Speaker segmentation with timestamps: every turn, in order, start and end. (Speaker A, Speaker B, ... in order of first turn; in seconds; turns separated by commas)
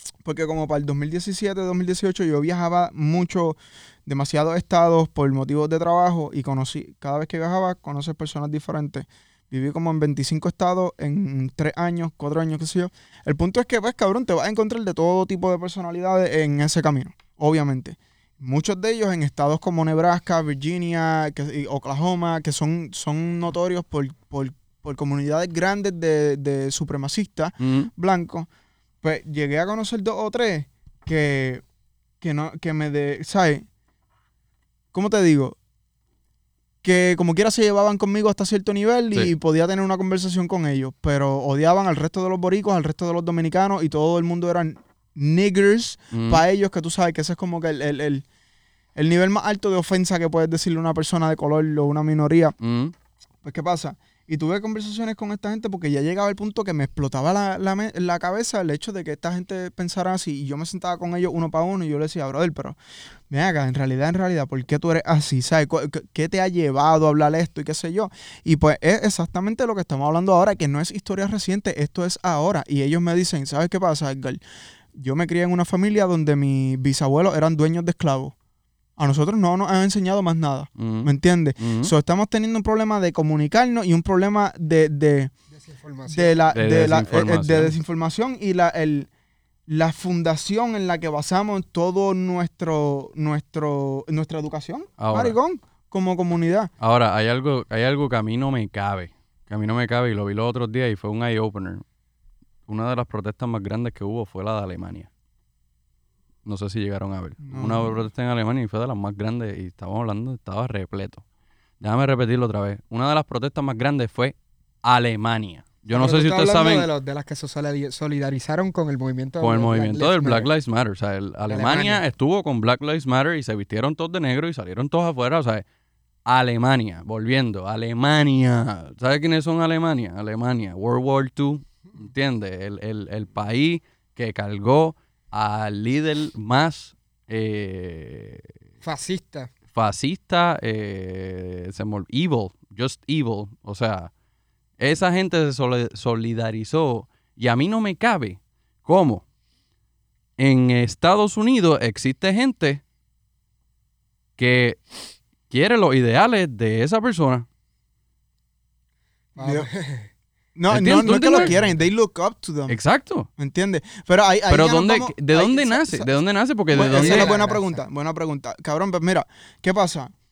Speaker A: 0.2-28.5, Speaker B: 27.6-27.9, Speaker A: 29.0-31.6, Speaker A: 32.2-33.7, Speaker A: 34.9-35.6, Speaker A: 36.8-48.2, Speaker B: 46.1-46.4, Speaker A: 49.0-52.5, Speaker B: 52.6-52.9, Speaker A: 53.4-62.8, Speaker A: 63.3-74.4, Speaker A: 75.0-78.3, Speaker A: 79.0-85.3, Speaker B: 80.8-81.9, Speaker C: 85.5-86.5, Speaker A: 86.1-89.1, Speaker B: 86.5-87.8, Speaker A: 89.7-96.7, Speaker B: 95.0-95.3, Speaker B: 96.8-101.8, Speaker B: 102.7-105.1, Speaker B: 106.5-111.2, Speaker A: 107.5-108.0, Speaker B: 111.8-116.9, Speaker C: 115.9-120.5, Speaker B: 119.4-125.6, Speaker C: 121.5-122.0, Speaker B: 126.3-138.5, Speaker C: 138.8-139.5, Speaker B: 139.7-144.1, Speaker B: 144.8-149.2, Speaker B: 150.4-152.8, Speaker B: 154.4-154.8, Speaker B: 155.5-157.5, Speaker C: 159.4-160.1, Speaker A: 159.4-159.7, Speaker A: 160.6-162.8, Speaker B: 160.7-161.5, Speaker C: 161.0-161.8, Speaker B: 162.7-163.3, Speaker A: 163.4-166.2, Speaker B: 164.5-167.3, Speaker A: 166.7-170.1, Speaker C: 166.8-167.8